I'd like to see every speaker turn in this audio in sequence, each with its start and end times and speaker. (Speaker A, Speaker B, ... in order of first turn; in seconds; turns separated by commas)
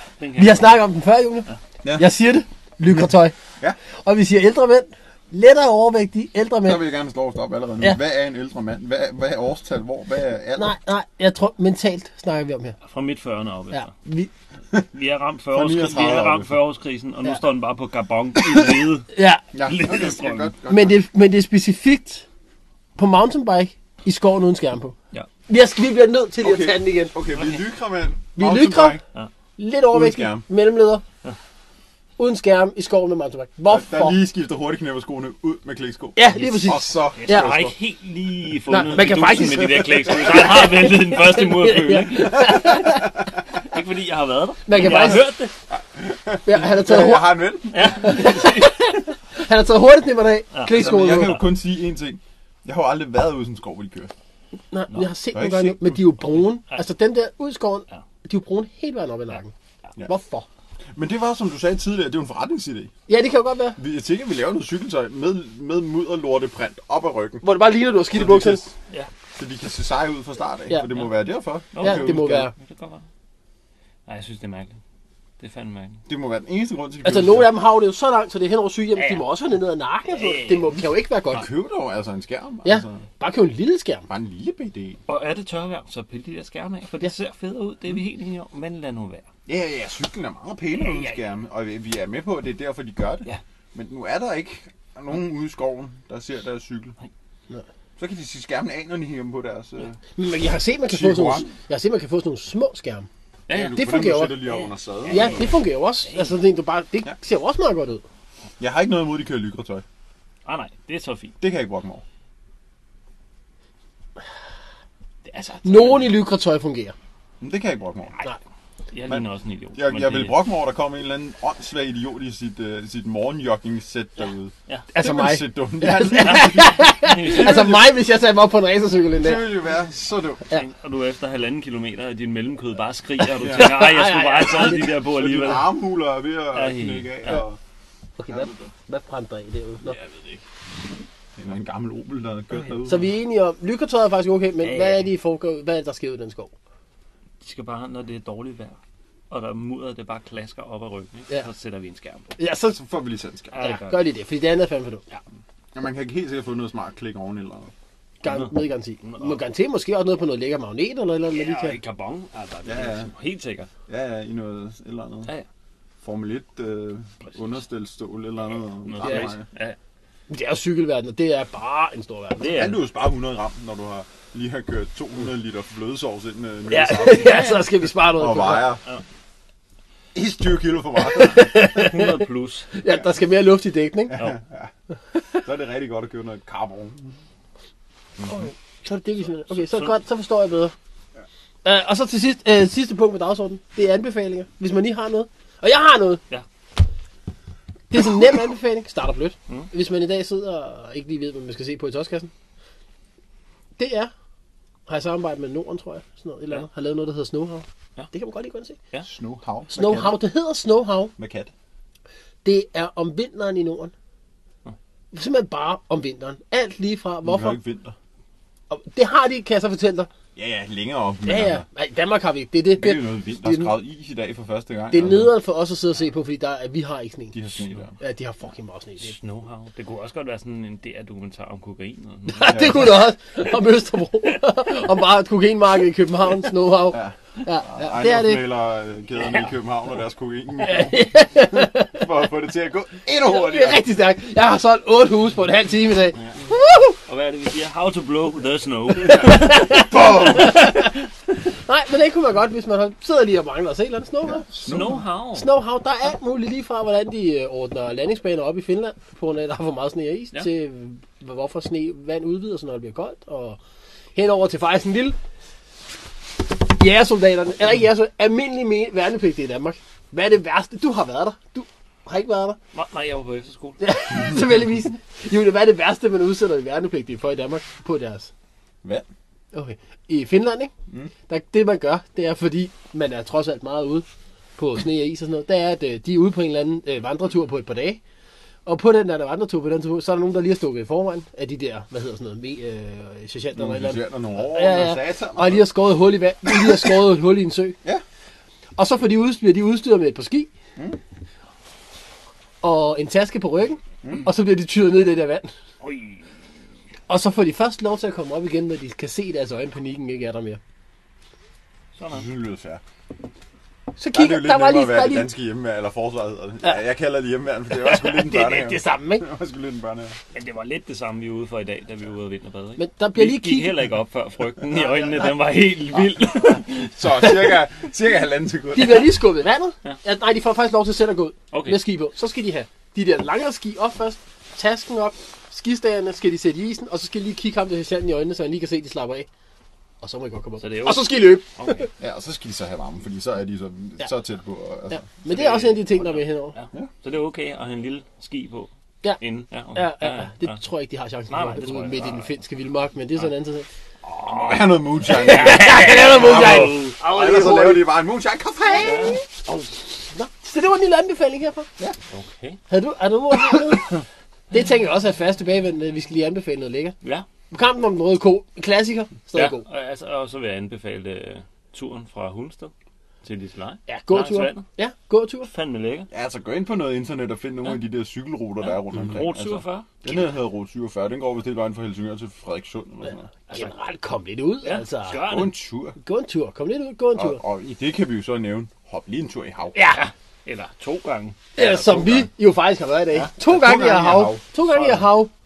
Speaker A: 0.2-0.7, Speaker B: 0.3-3.3, Speaker B: 4.0-6.8, Speaker C: 6.6-10.7, Speaker B: 10.6-12.8, Speaker A: 12.8-13.9, Speaker B: 13.7-14.3, Speaker A: 14.8-19.1, Speaker C: 15.5-16.5, Speaker B: 18.4-19.4, Speaker C: 19.5-21.0, Speaker A: 19.6-20.5, Speaker B: 20.7-22.2, Speaker B: 22.9-24.9, Speaker B: 25.5-27.1, Speaker C: 26.4-29.0, Speaker A: 27.3-27.6, Speaker B: 28.4-29.0, Speaker B: 29.6-31.0, Speaker C: 29.9-30.4, Speaker B: 32.2-34.2, Speaker C: 33.7-37.8, Speaker B: 36.1-37.5, Speaker A: 37.1-45.5, Speaker B: 38.6-43.2, Speaker B: 44.6-45.3, Speaker C: 45.7-47.9, Speaker B: 46.5-51.4, Speaker A: 47.7-48.7, Speaker A: 50.5-51.5, Speaker C: 50.7-54.1, Speaker B: 54.7-59.5, Speaker C: 55.3-56.0, Speaker B: 60.0-60.5, Speaker C: 60.9-62.9, Speaker B: 63.1-63.8, Speaker C: 63.8-67.4, Speaker B: 67.4-68.7, Speaker C: 68.1-68.7, Speaker C: 69.3-72.5, Speaker A: 71.7-73.0, Speaker B: 71.8-72.5, Speaker A: 74.1-74.8, Speaker A: 75.4-76.0, Speaker C: 76.1-77.6, Speaker B: 77.0-81.5, Speaker A: 78.9-79.2, Speaker A: 80.1-80.8, Speaker C: 81.3-83.0, Speaker B: 82.6-84.0, Speaker C: 84.1-85.0, Speaker A: 85.1-89.2, Speaker C: 89.5-97.0, Speaker A: 90.7-91.2, Speaker C: 98.0-100.0, Speaker B: 100.2-103.1, Speaker C: 100.8-101.5, Speaker A: 103.5-103.8, Speaker C: 103.5-105.4, Speaker B: 103.7-104.5, Speaker A: 104.4-106.3, Speaker B: 105.1-108.0, Speaker C: 108.6-109.8, Speaker A: 110.4-111.3, Speaker C: 111.4-112.0, Speaker A: 115.2-116.2, Speaker B: 115.6-116.9, Speaker C: 117.4-118.2, Speaker A: 118.9-120.4, Speaker C: 119.0-128.0, Speaker B: 124.9-129.5, Speaker A: 126.2-127.7, Speaker C: 129.2-130.5, Speaker A: 130.5-135.8, Speaker C: 133.4-133.8, Speaker B: 133.5-134.9, Speaker C: 134.8-137.6, Speaker A: 136.5-137.4, Speaker B: 138.2-140.0, Speaker C: 138.3-138.7, Speaker C: 141.4-143.1, Speaker B: 142.8-146.5, Speaker A: 144.6-145.1, Speaker A: 147.4-148.8, Speaker A: 149.3-152.3, Speaker B: 152.4-152.8, Speaker C: 152.7-153.6, Speaker A: 153.5-154.0, Speaker B: 153.6-155.0, Speaker C: 155.7-157.7, Speaker B: 158.2-161.8, Speaker A: 158.2-159.4, Speaker A: 161.3-163.7, Speaker C: 162.6-163.1, Speaker C: 163.9-165.3, Speaker C: 166.0-169.4, Speaker A: 167.2-167.5, Speaker A: 168.8-169.8, Speaker B: 169.0-169.3, Speaker B: 170.3-172.5, Speaker A: 172.4-172.8, Speaker C: 172.4-178.8, Speaker B: 176.7-178.8, Speaker A: 177.1-177.6, Speaker C: 180.1-181.8, Speaker B: 181.0-182.2, Speaker A: 181.6-182.7, Speaker B: 182.7-184.2, Speaker C: 184.1-184.7, Speaker C: 185.3-187.2, Speaker B: 188.2-190.7, Speaker A: 189.5-189.9, Speaker B: 191.6-196.2, Speaker B: 197.9-202.3, Speaker B: 203.8-204.1, Speaker B: 204.9-208.8, Speaker C: 209.0-210.2, Speaker B: 209.7-211.1, Speaker C: 211.2-211.5, Speaker B: 212.4-213.9, Speaker B: 215.1-217.6, Speaker C: 217.2-217.9, Speaker B: 218.7-220.1, Speaker C: 220.3-221.6, Speaker B: 221.2-223.7, Speaker C: 222.8-225.3, Speaker B: 224.9-227.3, Speaker C: 227.3-227.9, Speaker A: 227.6-227.8, Speaker B: 228.0-229.1, Speaker A: 229.0-232.9, Speaker B: 232.3-238.4, Speaker C: 232.5-233.1, Speaker C: 236.9-241.1, Speaker B: 240.6-242.0, Speaker C: 241.6-243.8, Speaker B: 243.2-247.0, Speaker A: 247.1-249.5, Speaker C: 249.0-250.6, Speaker B: 249.0-251.1, Speaker B: 251.6-254.4, Speaker C: 254.3-255.0, Speaker A: 254.5-255.5, Speaker B: 255.3-263.6, Speaker B: 264.1-265.1, Speaker B: 266.7-272.6, Speaker A: 272.7-273.8, Speaker B: 273.8-278.3, Speaker B: 279.5-280.7, Speaker B: 281.3-284.1, Speaker B: 284.6-288.0, Speaker B: 288.6-297.8, Speaker C: 293.5-295.7, Speaker C: 296.4-297.0, Speaker B: 298.8-300.5, Speaker B: 302.6-305.5, Speaker C: 304.0-304.3, Speaker A: 305.8-306.3, Speaker B: 307.1-310.6, Speaker A: 311.9-312.2, Speaker C: 312.1-312.8, Speaker B: 314.0-315.3, Speaker C: 314.1-320.1, Speaker B: 317.8-319.2, Speaker A: 320.3-327.3, Speaker B: 322.8-323.8, Speaker B: 324.7-325.3, Speaker C: 326.5-329.2, Speaker B: 328.7-339.3, Speaker A: 331.5-331.8, Speaker B: 340.0-341.9, Speaker A: 340.6-341.9, Speaker C: 342.0-345.1, Speaker B: 345.0-346.6, Speaker A: 345.2-348.7, Speaker A: 349.2-350.6, Speaker B: 349.7-353.6, Speaker A: 351.3-352.3, Speaker A: 354.1-357.0, Speaker C: 354.2-359.2, Speaker B: 355.0-358.0, Speaker B: 358.8-361.7, Speaker A: 358.8-359.2, Speaker A: 362.1-362.6, Speaker B: 362.7-364.0, Speaker B: 364.5-366.9, Speaker B: 367.5-369.6, Speaker A: 369.3-372.7, Speaker A: 373.2-374.6, Speaker B: 373.9-375.5, Speaker A: 375.4-376.1, Speaker C: 376.1-383.3, Speaker A: 378.6-379.9, Speaker A: 383.5-383.7, Speaker B: 383.5-385.2, Speaker A: 384.6-385.5, Speaker C: 385.1-386.0, Speaker B: 386.0-387.4, Speaker C: 387.1-389.8, Speaker B: 389.7-390.1, Speaker A: 389.8-391.4, Speaker B: 391.5-395.3, Speaker C: 391.6-392.3, Speaker C: 393.4-394.4, Speaker A: 394.6-395.1